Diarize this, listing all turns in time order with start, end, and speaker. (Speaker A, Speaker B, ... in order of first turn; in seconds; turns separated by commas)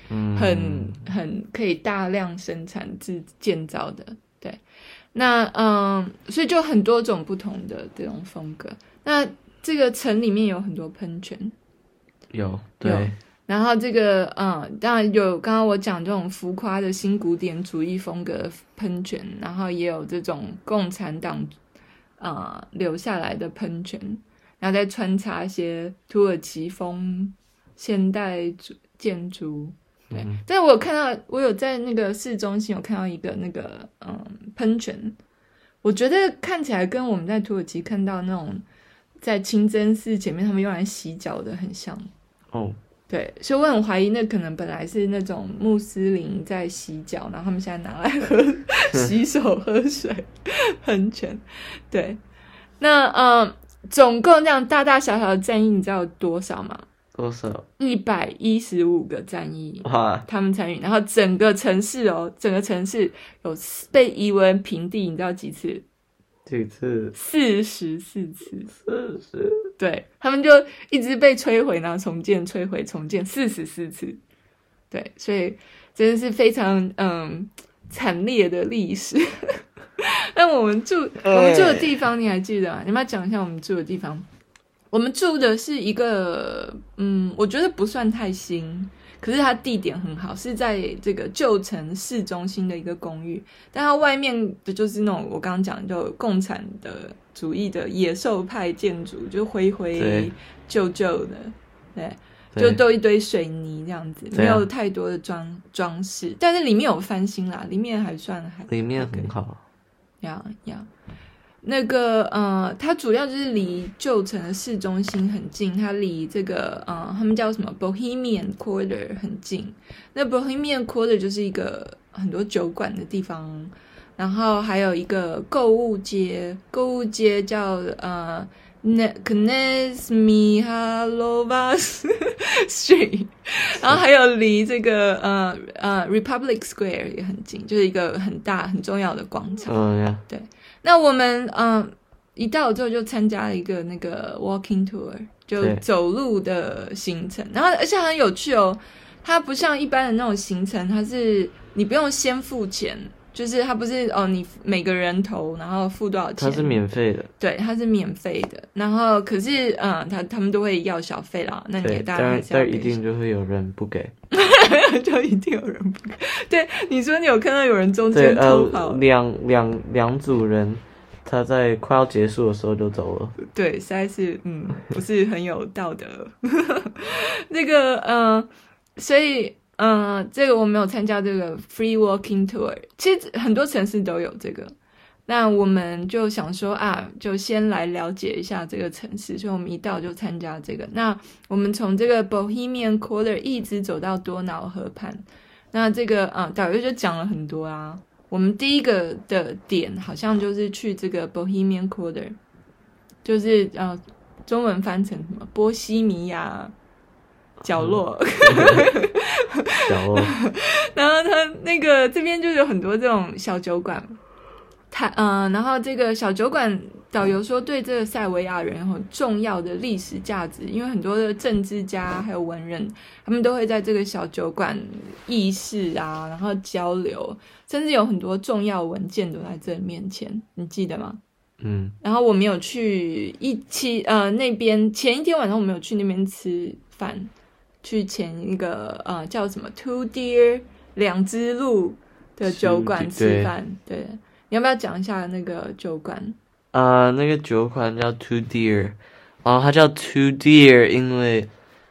Speaker A: 0.1-1.0, Speaker B: 0.3-4.6, Speaker B: 5.1-11.5, Speaker A: 12.3-13.2, Speaker B: 12.8-21.5, Speaker B: 22.2-35.1, Speaker A: 30.1-30.4, Speaker B: 35.8-38.6, Speaker B: 39.2-42.1, Speaker A: 42.5-42.8, Speaker B: 43.1-50.3, Speaker B: 50.8-52.2, Speaker B: 52.8-56.8, Speaker A: 57.1-57.6, Speaker B: 57.8-65.8, Speaker A: 59.9-60.2, Speaker A: 66.5-67.1, Speaker B: 67.1-68.7, Speaker A: 68.8-69.7, Speaker B: 69.8-74.2, Speaker B: 74.9-79.2, Speaker B: 80.0-84.2, Speaker A: 81.2-81.9, Speaker B: 84.9-109.3, Speaker A: 100.0-100.3, Speaker A: 102.5-102.8, Speaker A: 104.3-104.7, Speaker A: 108.7-109.6, Speaker B: 110.2-110.9, Speaker B: 111.6-139.7, Speaker A: 139.7-140.2, Speaker B: 140.3-156.8, Speaker A: 156.4-157.3, Speaker B: 157.4-163.0, Speaker A: 161.8-164.1, Speaker B: 164.3-169.0, Speaker A: 168.1-173.3, Speaker B: 173.4-184.7, Speaker B: 185.3-202.4, Speaker B: 203.2-206.7, Speaker B: 207.6-214.2, Speaker A: 207.8-208.9, Speaker A: 209.8-210.3, Speaker B: 214.9-231.2, Speaker A: 231.6-231.9, Speaker B: 232.0-237.3, Speaker B: 237.8-246.4, Speaker A: 242.5-243.5, Speaker A: 246.7-251.5